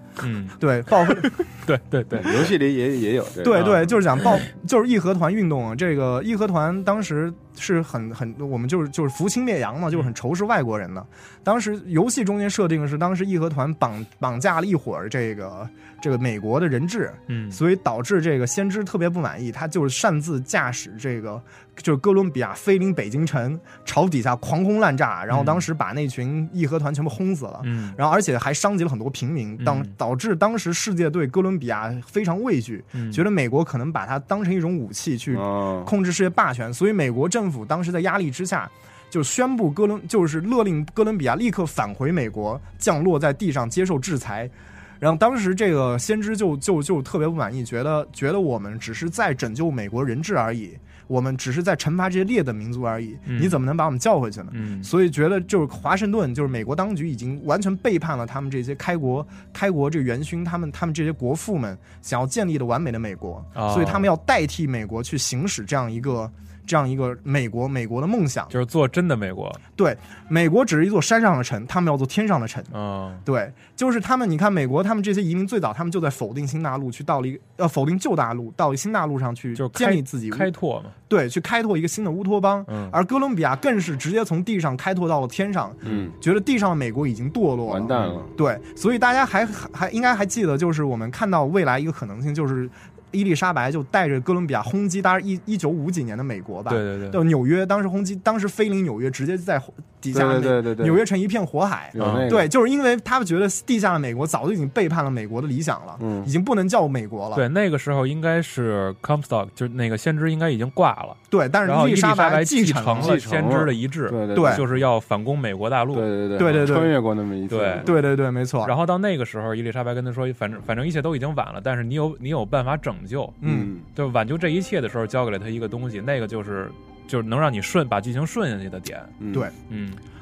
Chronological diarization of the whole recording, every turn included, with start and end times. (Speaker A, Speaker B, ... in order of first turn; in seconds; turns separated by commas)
Speaker A: 0.2-2.5, Speaker B: 0.6-1.4, Speaker C: 2.2-3.7, Speaker B: 3.4-68.5, Speaker A: 3.5-4.4, Speaker A: 17.3-17.6, Speaker A: 25.3-25.7, Speaker A: 27.6-28.0, Speaker A: 29.6-29.9, Speaker A: 33.0-33.2, Speaker C: 35.3-35.9, Speaker A: 53.3-53.6, Speaker A: 54.5-54.9, Speaker A: 63.5-64.1, Speaker A: 68.5-69.6, Speaker B: 69.8-72.7, Speaker A: 72.7-73.2, Speaker B: 73.2-80.5, Speaker A: 79.6-81.0, Speaker B: 81.1-107.5, Speaker A: 82.7-83.0, Speaker C: 85.8-86.2, Speaker C: 87.7-88.3, Speaker A: 87.9-88.2, Speaker A: 96.7-97.2, Speaker C: 100.1-101.0, Speaker C: 101.9-102.5, Speaker A: 102.0-102.3, Speaker C: 106.0-106.3, Speaker A: 107.3-116.1, Speaker B: 111.3-113.2, Speaker C: 113.0-114.8, Speaker B: 114.3-114.7, Speaker C: 115.9-117.9, Speaker B: 116.4-116.9, Speaker A: 117.5-117.9, Speaker B: 117.8-118.7, Speaker A: 118.6-129.2, Speaker B: 123.4-123.7, Speaker C: 123.4-123.8, Speaker C: 129.2-129.5, Speaker A: 129.7-130.0